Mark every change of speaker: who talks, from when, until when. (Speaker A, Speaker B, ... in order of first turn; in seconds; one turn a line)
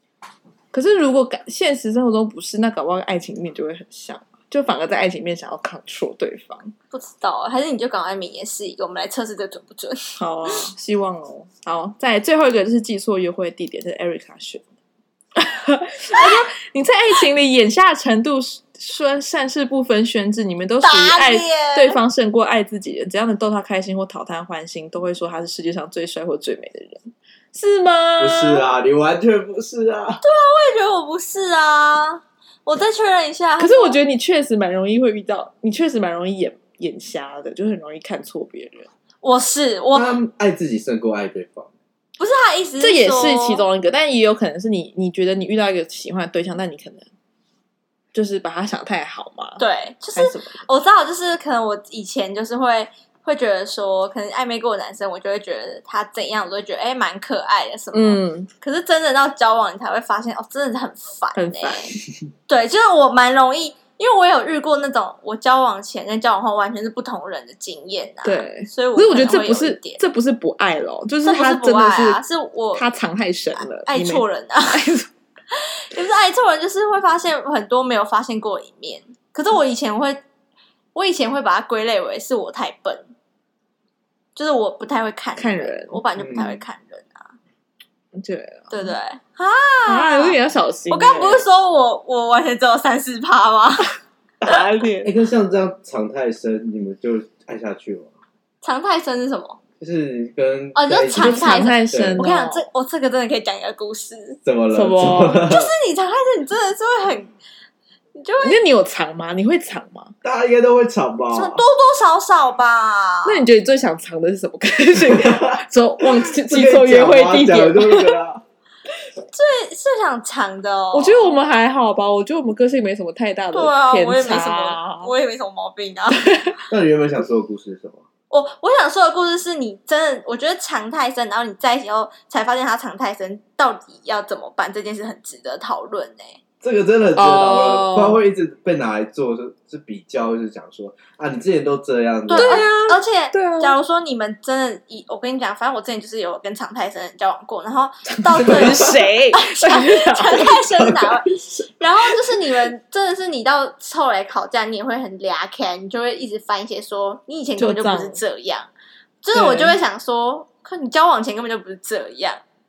Speaker A: 0.7-6.7
Speaker B: 6.9-10.7
Speaker A: 10.2-14.6
Speaker A: 15.4-28.6
Speaker B: 20.8-22.0
Speaker C: 28.2-30.2
Speaker B: 30.2-34.0
Speaker A: 33.6-38.9
Speaker B: 39.2-40.1
Speaker C: 39.9-41.7
Speaker B: 42.2-43.6
Speaker A: 42.8-47.1
Speaker A: 48.1-49.6
Speaker B: 49.6-61.9
Speaker A: 50.1-50.6
Speaker A: 57.9-58.5
Speaker A: 61.4-62.0
Speaker B: 62.5-70.0
Speaker A: 68.2-72.2
Speaker B: 71.2-72.9
Speaker A: 72.8-75.1
Speaker B: 73.5-74.9
Speaker B: 75.5-80.2
Speaker B: 80.9-83.1
Speaker B: 84.4-87.4
Speaker A: 85.4-86.0
Speaker C: 86.2-86.6
Speaker A: 88.1-89.0
Speaker B: 88.7-90.4
Speaker A: 89.9-91.4
Speaker B: 90.9-94.0
Speaker A: 94.4-95.1
Speaker C: 95.0-98.1
Speaker B: 98.6-99.6
Speaker C: 99.8-102.2
Speaker B: 100.7-104.4
Speaker A: 101.2-102.6
Speaker C: 104.4-105.7
Speaker A: 104.7-105.4
Speaker B: 105.5-107.3
Speaker B: 108.2-108.6
Speaker A: 108.4-110.1
Speaker C: 110.2-111.6
Speaker B: 111.3-113.4
Speaker A: 113.2-118.2
Speaker C: 115.0-118.4
Speaker B: 119.3-121.3
Speaker A: 120.9-125.1
Speaker B: 123.5-126.3
Speaker A: 126.2-126.5
Speaker C: 126.7-128.1
Speaker B: 128.3-136.4
Speaker C: 136.6-142.7
Speaker A: 137.2-138.2
Speaker B: 142.3-158.7
Speaker A: 142.3-143.8
Speaker A: 148.1-150.6
Speaker C: 148.4-148.8
Speaker C: 150.7-151.6
Speaker A: 157.6-158.2
Speaker B: 159.2-162.4
Speaker A: 159.3-159.8